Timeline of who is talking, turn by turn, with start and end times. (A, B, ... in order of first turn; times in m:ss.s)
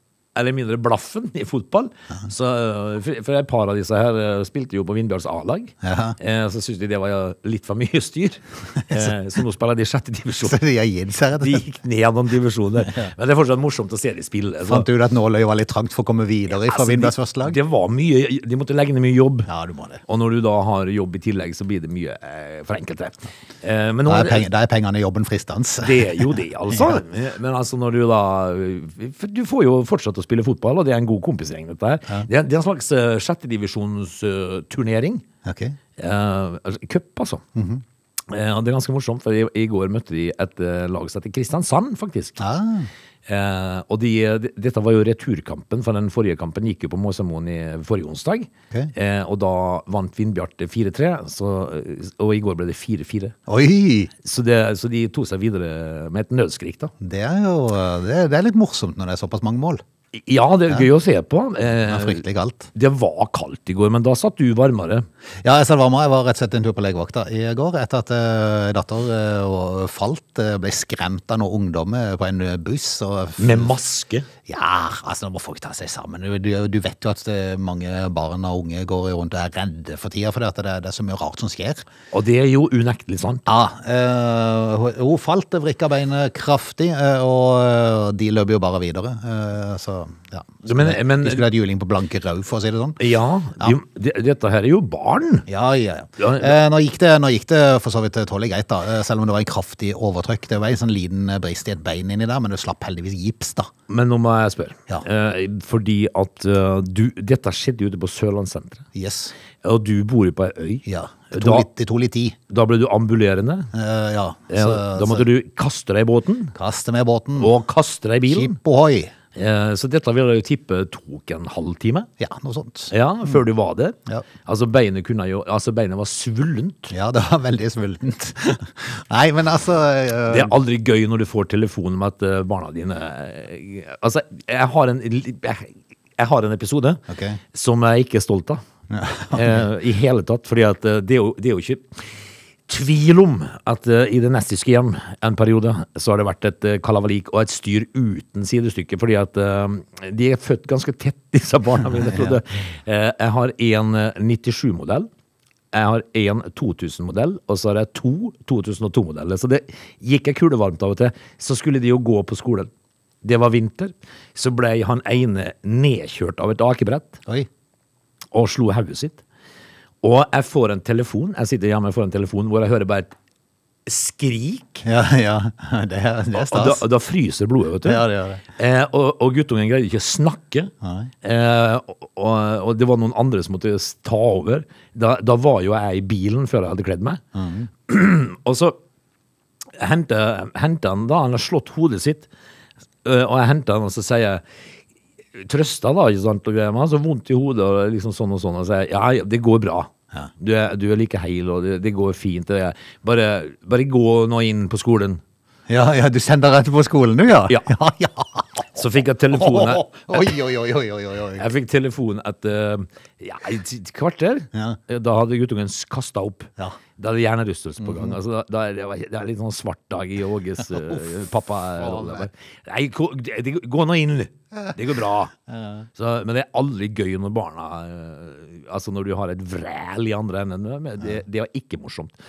0:00.4-0:10.6 A
0:05.8-0:06.2 B
0:08.8-0:09.2 B
0:10.4-0:11.6 B
0:11.4-0:14.9 A
0:12.8-0:13.1 B
0:14.7-0:17.6 B
0:16.5-0:19.5 A
0:19.5-0:20.0 B
0:20.1-0:24.5 A
0:24.1-0:27.0 B
0:25.8-0:35.2 A
0:35.4-0:35.8 B
0:36.0-0:37.4 A
0:37.6-0:37.8 B
0:38.3-0:42.4 A
0:42.4-0:42.9 B
0:43.3-0:53.4 A
0:53.5-0:54.1 B
0:54.2-0:56.9 A
0:57.0-0:59.8 B
1:00.1-1:02.2 A
1:01.8-1:02.7 B
1:02.7-1:05.1 A
1:05.4-1:13.8 B
1:13.4-1:14.3 A
1:14.5-1:21.8 B
1:22.1-1:23.5 A
1:23.5-1:33.0 B
1:30.6-1:31.5 A
1:33.0-1:35.5 A
1:35.5-1:43.7 B
1:36.2-1:36.6 A
1:43.9-1:48.9 A
1:48.9-1:49.3 B
1:49.6-1:51.7 A
1:50.8-1:52.4 B
1:52.5-1:53.7 A
1:53.7-1:55.3 B
1:54.5-1:56.6 A
1:56.5-1:57.5 B
1:57.4-1:58.6 A
1:58.3-1:59.1 B
1:59.4-2:02.1 A
2:02.2-2:02.9 B
2:02.9-2:06.9 A
2:06.9-2:10.6 B
2:10.3-2:18.6 A
2:17.1-2:17.4 B
2:18.9-2:19.6 B
2:19.3-2:22.1 A
2:22.7-2:35.1 A
2:32.0-2:32.4 B
2:35.7-2:42.7 A
2:43.2-2:47.2 A
2:48.3-2:49.2 A
2:50.0-2:53.1 A
2:53.9-2:54.8 A
2:54.8-2:56.8 B
2:56.3-3:07.2 A
2:57.8-2:58.4 B
3:00.8-3:01.1 B
3:07.4-3:07.7 B
3:07.8-3:08.8 A
3:09.8-3:12.3 A
3:13.0-3:14.4 A
3:15.4-3:25.2 A
3:25.7-3:28.8 B
3:28.7-3:30.3 A
3:29.3-3:31.4 B
3:31.4-3:45.3 A
3:34.5-3:34.8 B
3:37.8-3:38.2 B
3:41.8-3:42.3 B
3:45.5-3:45.9 B
3:46.0-3:52.2 A